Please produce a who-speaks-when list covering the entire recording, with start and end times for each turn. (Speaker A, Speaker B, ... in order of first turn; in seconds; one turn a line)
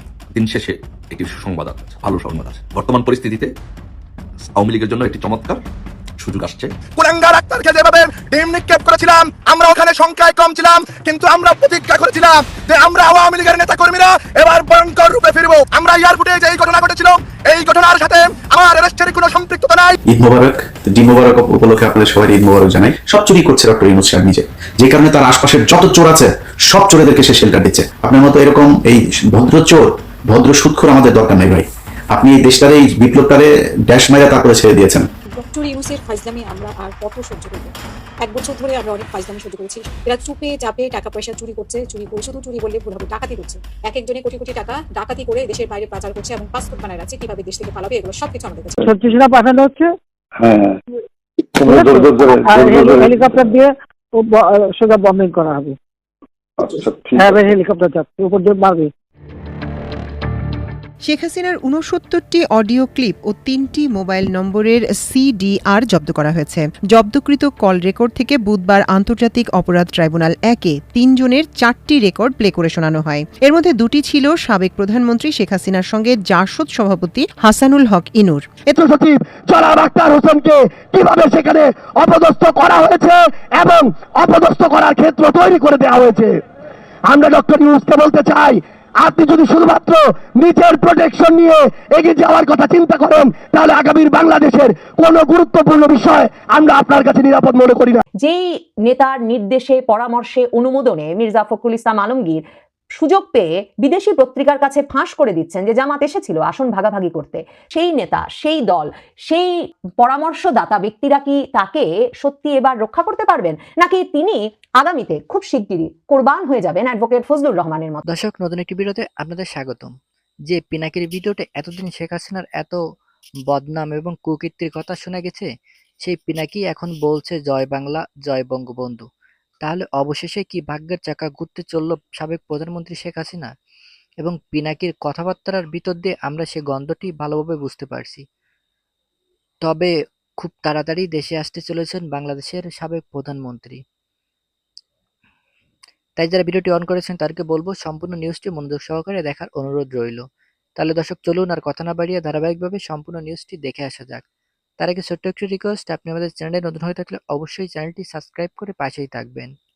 Speaker A: 0.3-3.5
Speaker A: 4.5-5.6
Speaker A: 6.2-6.7
Speaker B: 7.0-19.9
Speaker C: 20.1-35.0
Speaker D: 35.3-48.8
Speaker E: 48.8-49.9
Speaker F: 50.4-50.8
Speaker F: 51.6-53.4
Speaker E: 51.7-55.8
Speaker F: 56.6-57.4
Speaker E: 57.1-58.9
Speaker G: 61.0-78.5
Speaker H: 78.7-86.3
Speaker H: 87.1-98.0
Speaker I: 98.2-102.4
Speaker I: 103.0-118.0
Speaker J: 118.1-119.9
Speaker J: 120.5-122.8
Speaker J: 123.5-125.5
Speaker J: 126.0-129.0
Speaker J: 129.6-133.5
Speaker J: 134.2-138.2
Speaker J: 139.6-143.8
Speaker J: 146.2-150.2
Speaker J: 150.8-154.2
Speaker J: 154.8-159.5